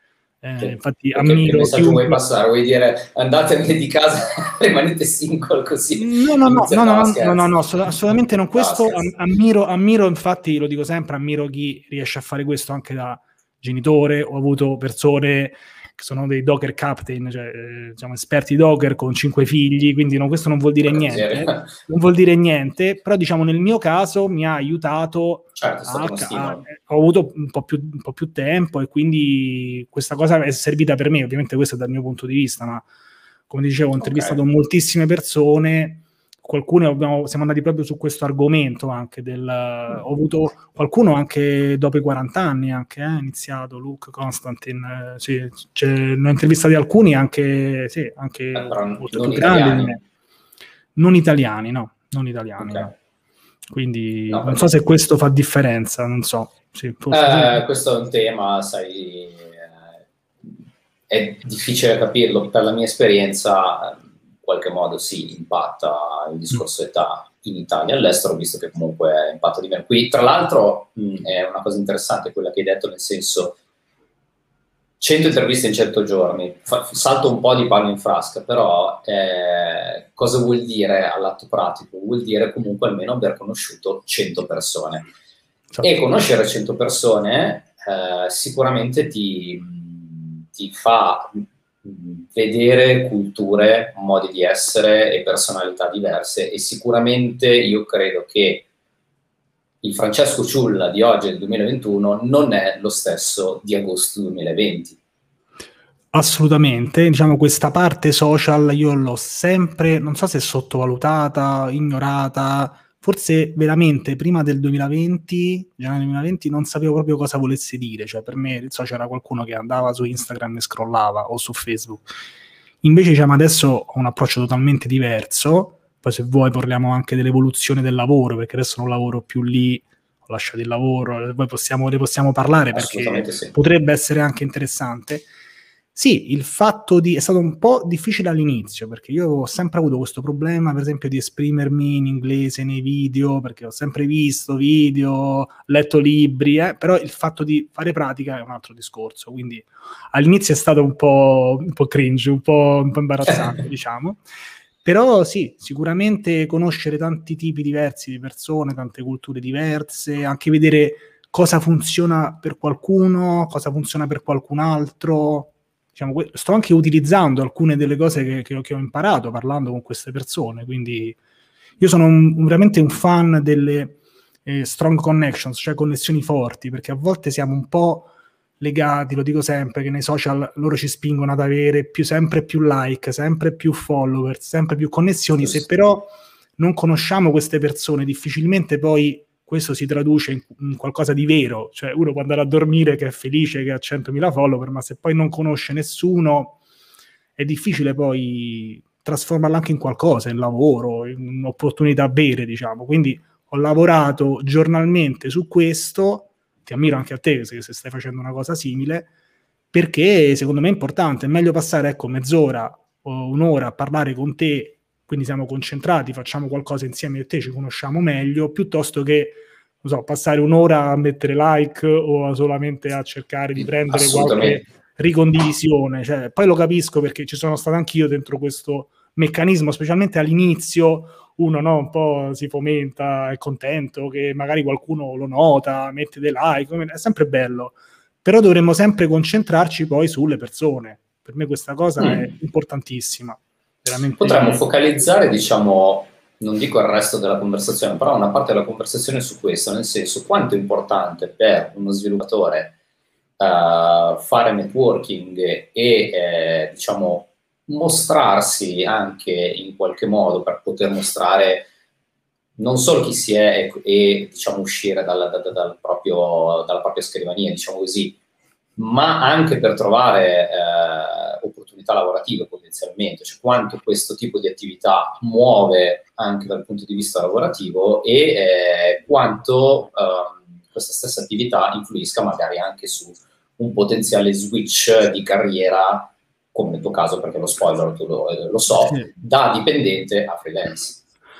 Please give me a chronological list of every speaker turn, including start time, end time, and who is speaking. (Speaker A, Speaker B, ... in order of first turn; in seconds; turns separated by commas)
Speaker A: 0.4-2.2, Speaker B: 0.6-7.6, Speaker A: 6.0-32.8, Speaker B: 8.5-9.1, Speaker B: 20.8-21.7, Speaker B: 25.6-26.6, Speaker A: 33.5-50.0, Speaker B: 34.0-34.4, Speaker B: 48.5-50.0, Speaker A: 51.0-52.9, Speaker B: 52.6-52.9, Speaker A: 53.7-57.6, Speaker B: 54.3-54.7, Speaker B: 57.1-59.8, Speaker B: 61.1-73.6, Speaker B: 75.0-85.1, Speaker B: 85.8-98.7, Speaker B: 99.8-105.0, Speaker A: 106.1-122.1, Speaker A: 122.8-135.3, Speaker B: 132.7-133.6, Speaker A: 135.9-154.2, Speaker A: 154.8-171.2, Speaker A: 171.8-196.6, Speaker B: 185.4-185.6, Speaker A: 197.4-209.1, Speaker A: 209.7-244.6, Speaker B: 223.6-224.6, Speaker B: 242.0-242.3, Speaker B: 244.2-252.7, Speaker B: 253.4-261.7, Speaker B: 262.6-268.2, Speaker B: 268.8-291.0, Speaker A: 288.8-289.1